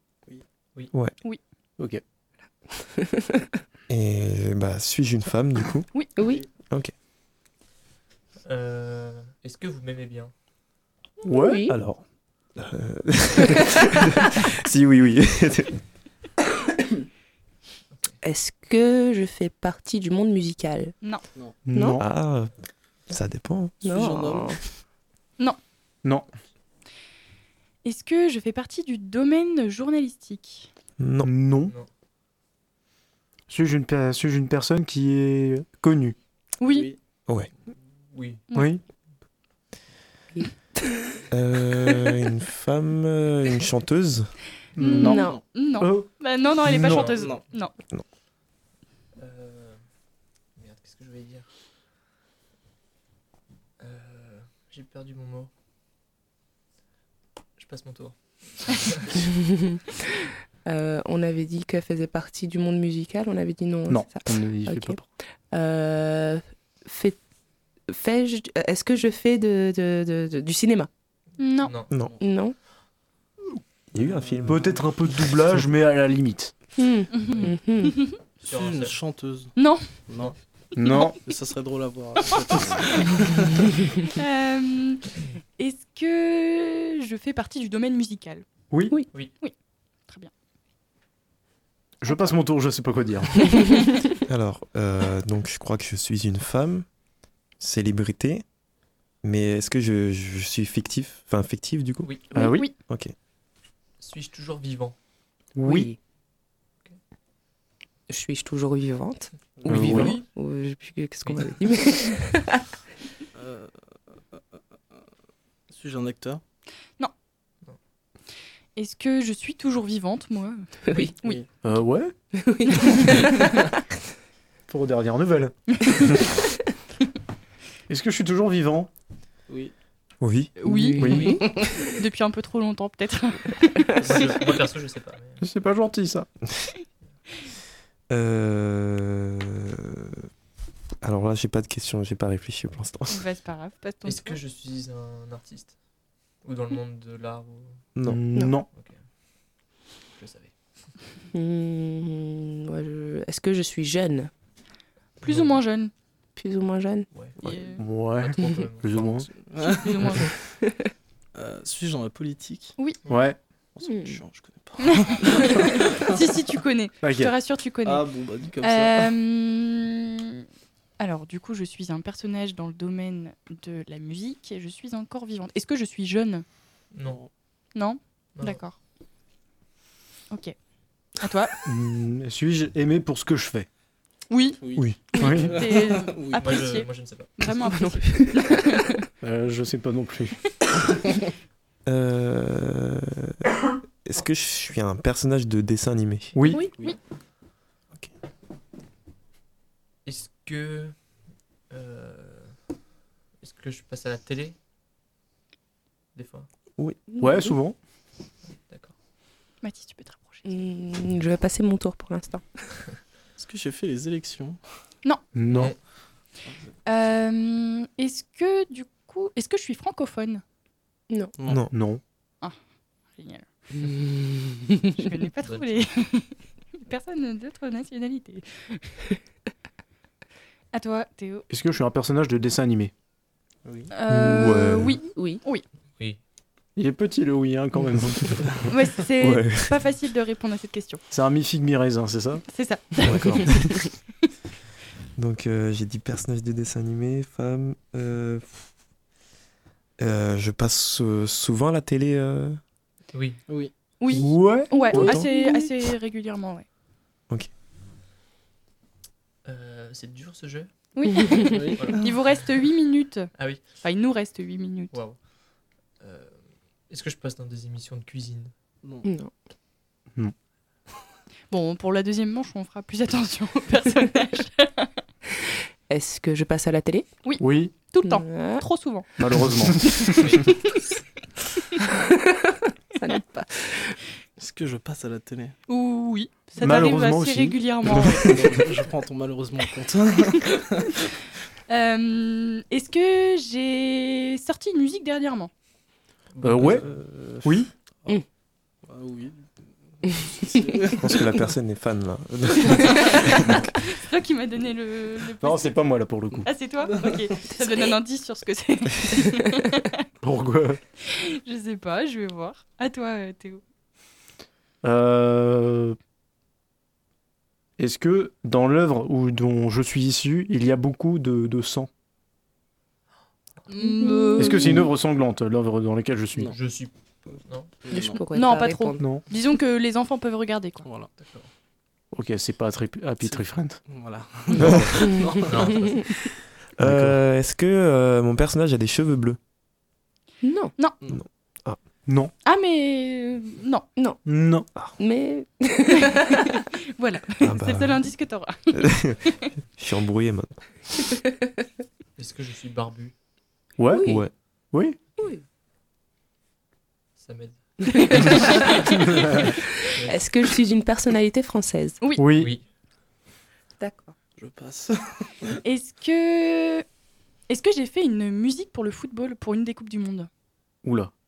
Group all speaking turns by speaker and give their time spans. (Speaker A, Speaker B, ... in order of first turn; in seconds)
Speaker A: 3.9-6.1, 11.7-12.0, 12.5-15.8, 21.9-22.5, 23.1-23.8, 31.0-31.3, 41.3-44.3, 73.9-74.8, 94.3-96.8, 97.6-98.4, 99.2-102.2, 102.8-103.1, 130.2-130.5, 138.1-140.2, 141.0-143.2, 147.9-148.2, 191.8-193.4, 194.0-196.4, 234.1-235.0, 239.2-239.7, 243.0-243.8, 245.2-248.7, 250.0-252.6, 254.9-255.3, 301.0-303.7, 334.6-334.9, 336.8-339.4, 341.1-341.8, 347.4-348.1, 348.7-350.7, 354.0-354.3
Speaker B: 6.2-6.4, 11.3-11.8, 18.2-20.9, 21.7-22.0, 23.8-24.6, 40.3-40.9, 44.9-45.4, 59.3-59.8, 60.6-67.2, 67.9-70.9, 72.2-72.5, 76.8-78.1, 105.6-106.0, 108.1-112.6, 120.9-121.1, 122.3-123.5, 130.6-131.5, 151.3-154.3, 156.3-157.1, 160.6-160.9, 163.8-164.2, 187.6-188.8, 207.1-207.5, 210.4-212.5, 223.8-224.8, 235.2-235.4, 254.7-255.7, 269.0-269.3, 275.9-277.3, 278.0-278.7, 282.0-284.0, 323.8-324.9, 327.9-329.0, 340.4-340.7, 343.9-344.3, 344.9-346.5, 353.9-354.3, 355.2-355.4, 357.8-358.9, 359.8-362.1, 363.8-364.1
Speaker C: 6.2-6.5, 23.8-24.6, 36.6-37.0, 46.9-47.4, 74.2-74.4, 78.4-80.3, 81.2-83.5, 109.6-110.2, 113.3-113.7, 115.7-116.4, 121.2-121.5, 129.5-129.7, 131.4-131.7, 159.3-160.3, 161.3-162.8, 163.7-166.2, 167.8-169.1, 177.0-177.3, 184.6-186.5, 213.4-214.6, 221.4-221.7, 233.6-233.9, 253.5-253.7, 261.5-262.0, 268.8-269.1, 284.4-285.6, 288.1-291.0, 296.7-297.0, 298.8-301.3, 306.8-307.3, 327.8-328.2, 330.8-331.1, 333.2-335.9, 364.4-365.6
Speaker D: 8.4-10.3, 17.9-18.2, 38.1-38.5, 46.9-47.4, 49.2-49.8, 50.5-51.5, 53.8-55.5, 57.6-59.1, 71.6-72.2, 78.4-79.0, 102.0-102.3, 104.0-104.9, 111.2-111.5, 134.0-135.4, 144.0-145.8, 146.4-147.8, 148.7-149.0, 150.2-150.5, 155.2-155.6, 157.1-157.4, 158.0-159.2, 176.9-177.2, 178.3-178.6, 186.4-187.3, 200.0-201.0, 201.7-202.6, 203.4-204.6, 206.1-206.5, 208.7-208.9, 215.5-215.8, 225.4-225.8, 253.1-253.4, 259.4-260.7, 261.8-262.1, 263.4-263.8, 264.9-265.2, 266.0-266.4, 266.9-268.5, 296.3-296.9, 326.5-327.7, 331.2-331.5, 335.5-336.1, 352.2-353.1, 357.2-358.8, 359.9-360.2, 362.4-362.6
Speaker E: 11.2-11.7, 21.6-22.1, 31.2-31.7, 33.5-36.1, 38.5-38.8, 44.8-46.1, 46.6-47.0, 63.9-65.0, 74.5-76.5, 80.8-81.2, 88.7-89.0, 92.0-93.3, 102.3-102.7, 105.5-105.9, 109.7-110.2, 121.6-122.1, 124.7-125.5, 127.9-128.9, 131.0-131.3, 135.4-136.3, 148.0-148.7, 157.5-159.3, 163.1-163.4, 167.0-167.3, 181.6-183.7, 185.2-185.6, 189.2-190.4, 196.3-196.7, 207.2-207.8, 215.3-215.7, 221.7-222.0, 231.5-232.9, 236.8-238.5, 241.1-242.4, 254.1-255.2, 277.4-277.7, 279.2-280.2, 286.6-287.7, 296.4-297.7, 305.4-306.5, 310.2-310.8, 314.8-316.0, 317.8-321.9, 324.4-326.5, 332.1-333.8, 336.8-337.2, 342.1-342.3, 344.2-344.7, 353.8-355.0, 358.9-359.6, 362.1-362.5, 370.8-371.1
Speaker F: 27.8-30.7, 36.6-36.9, 44.8-47.7, 71.4-71.7, 77.1-78.1, 79.5-79.8, 80.8-81.1, 84.1-88.5, 102.4-102.7, 118.8-121.4, 122.8-123.1, 130.6-133.9, 143.1-144.4, 155.2-155.9, 157.4-157.8, 159.6-160.3, 164.8-168.1, 168.6-170.4, 171.0-176.4, 177.7-178.8, 181.2-181.6, 184.3-189.0, 209.6-210.5, 216.8-220.4, 223.2-223.4, 224.9-229.0, 230.7-231.5, 233.9-235.6, 238.7-241.0, 242.5-243.5, 254.0-256.6, 260.9-264.9, 271.5-274.9, 277.2-279.1, 285.7-288.4, 291.7-295.5, 302.9-303.2, 303.8-305.8, 306.4-310.0, 311.0-313.6, 323.7-324.8, 328.3-330.9, 342.4-343.9, 347.0-349.5, 365.6-366.8, 367.5-370.3